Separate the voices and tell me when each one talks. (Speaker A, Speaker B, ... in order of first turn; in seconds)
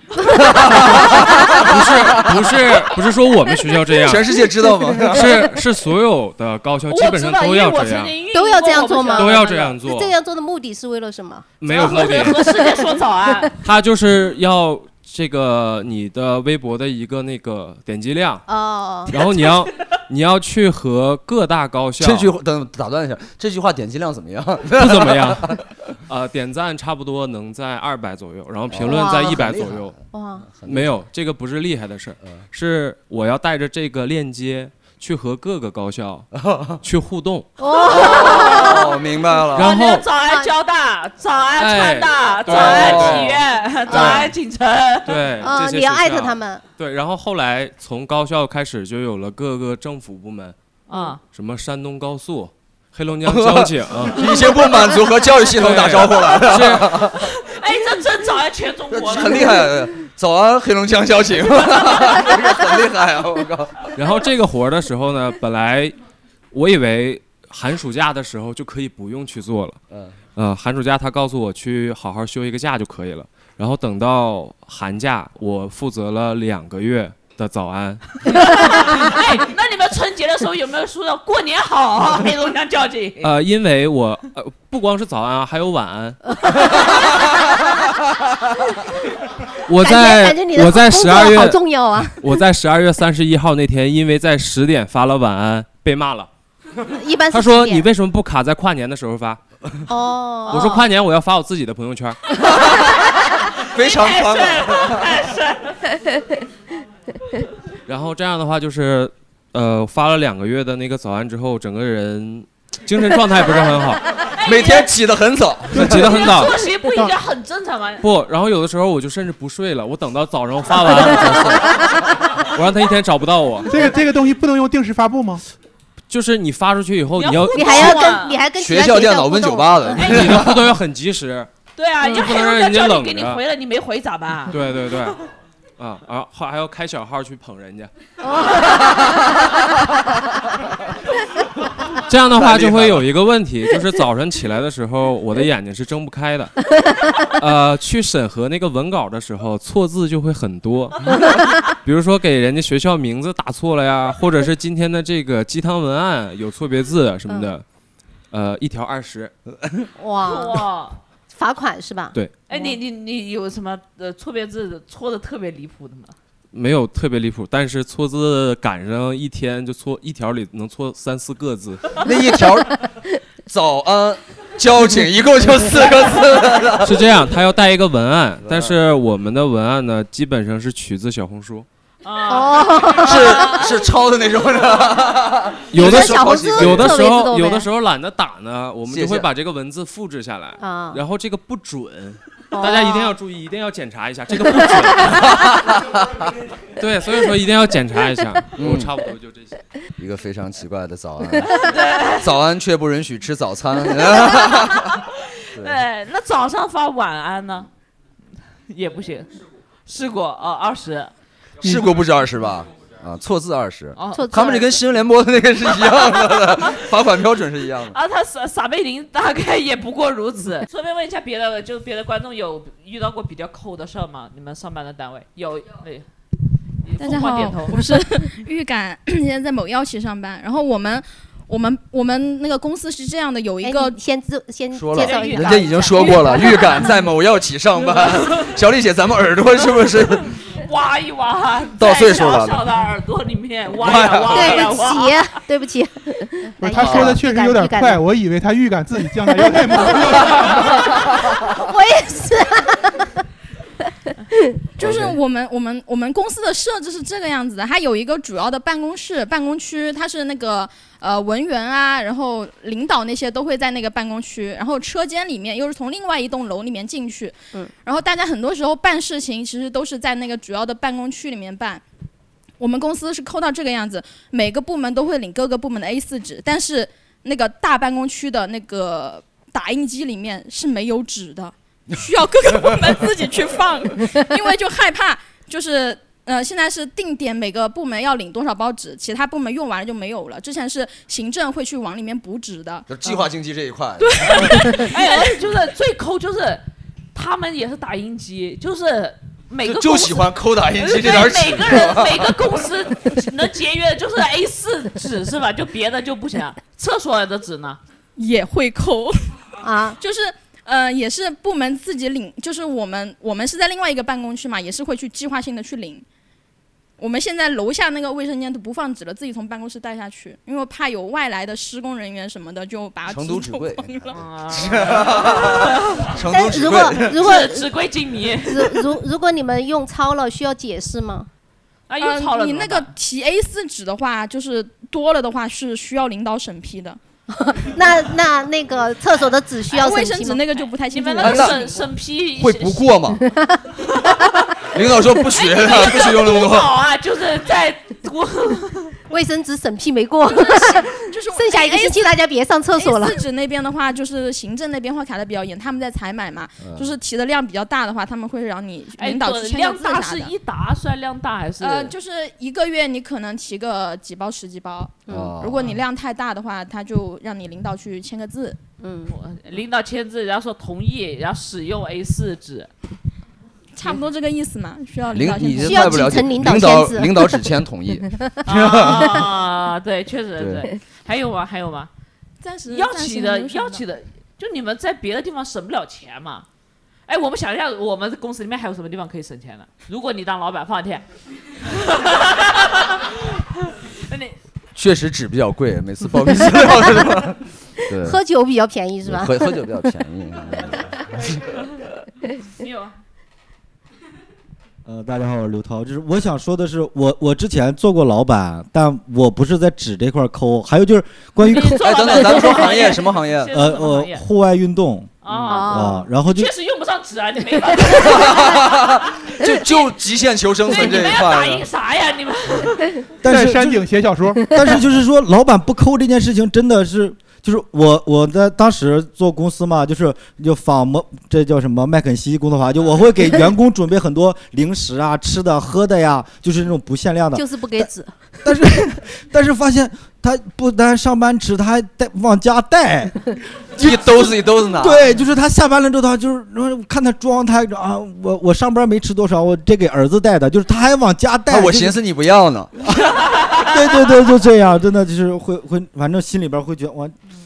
Speaker A: 0.3-2.4, 4.1-5.5, 22.0-25.6, 28.7-30.0, 30.5-31.0, 36.3-36.8, 37.9-39.8, 42.5-43.4, 53.2-57.4, 58.9-64.0, 69.9-70.2, 102.7-103.0, 103.5-105.2, 114.4-116.3, 121.0-122.0, 128.6-130.7, 139.0-139.2, 142.3-143.1, 172.0-172.9, 173.4-177.0, 178.4-178.8, 183.0-187.0, 188.9-189.3, 195.4-196.2, 198.6-198.9, 200.0-205.0, 211.6-218.0, 234.7-240.3, 241.8-242.6, 243.8-244.7, 246.7-247.2, 254.8-255.2, 292.9-294.8, 299.6-302.3, 323.1-327.2, 341.2-341.6, 342.4-343.2, 344.7-346.7, 356.6-356.9, 365.1-365.8, 375.1-379.3, 380.4-380.7, 394.8-398.2, 399.0-401.6, 411.8-413.5, 415.3-415.6, 417.9-421.7, 443.8-445.1, 451.5-453.3
Speaker B: 1.3-4.4, 5.1-8.2, 9.2-10.1, 11.6-12.6, 13.6-18.4, 19.1-22.3, 24.8-29.9, 30.6-36.3, 36.8-37.5, 39.5-40.1, 41.6-44.3, 45.0-50.5, 51.3-54.3, 55.5-57.0, 64.0-65.9, 66.5-69.8, 70.4-78.8, 83.2-86.2, 89.7-91.6, 92.2-96.3, 97.3-99.4, 100.5-102.2, 107.9-114.0, 115.7-116.5, 118.0-121.6, 122.3-123.8, 126.1-128.1, 130.0-131.5, 132.1-133.4, 134.5-135.2, 135.8-137.9, 142.1-157.6, 158.3-159.3, 166.5-172.0, 176.8-181.7, 185.7-195.5, 196.8-199.6
Speaker C: 6.9-9.7, 11.7-13.5, 37.7-39.0, 39.6-45.3, 50.9-51.2, 57.3-59.7, 78.3-83.3, 100.5-100.8, 103.6-106.0, 114.3-114.9, 115.8-118.0, 127.2-128.4, 131.8-134.6, 160.2-161.0, 162.5-166.2, 182.0-183.9, 201.5-202.4, 204.0-207.7, 208.7-209.3, 209.9-211.1, 214.0-214.6, 215.8-216.8, 217.9-226.1, 226.8-228.1, 234.9-236.9, 238.0-238.6, 240.0-245.3, 294.2-296.6, 297.1-307.8, 324.1-326.1, 327.0-328.9, 331.9-332.9, 340.9-343.1, 344.0-344.3, 345.1-349.0, 359.0-361.9, 369.1-372.7, 378.5-381.9, 382.7-386.5, 387.1-391.1, 391.6-394.4, 402.5-402.9, 411.4-414.2, 415.2-419.9, 420.7-423.0
Speaker D: 8.3-11.5, 12.0-12.5, 18.5-19.1, 28.9-29.4, 30.1-30.5, 37.6-38.9, 43.9-44.3, 45.4-46.6, 86.5-86.8, 89.8-92.2, 96.9-97.9, 99.9-100.8, 127.5-130.0, 160.0-160.6, 161.3-162.8, 182.3-183.6, 185.8-187.7, 190.6-191.0, 192.5-193.2, 214.1-214.7, 233.6-236.6, 244.3-248.0, 251.4-253.2, 309.6-310.0, 326.3-327.7, 328.4-331.3, 337.3-340.4, 343.2-344.1, 349.1-353.2, 365.1-365.3, 368.8-369.1, 375.6-377.4, 398.0-399.6, 415.5-416.1, 437.3-438.2
Speaker E: 123.7-125.4, 246.6-251.1, 423.2-424.6
Speaker F: 227.0-234.0, 254.8-271.8, 272.6-292.9, 294.0-295.3, 308.2-309.3, 310.0-316.0, 317.0-324.2, 332.0-337.0, 339.7-341.8, 350.3-352.1, 352.8-360.3, 361.6-368.6, 373.8-376.0, 382.4-383.8
Speaker G: 404.9-412.2, 413.5-416.5, 423.2-437.9, 438.4-451.9, 453.6-457.1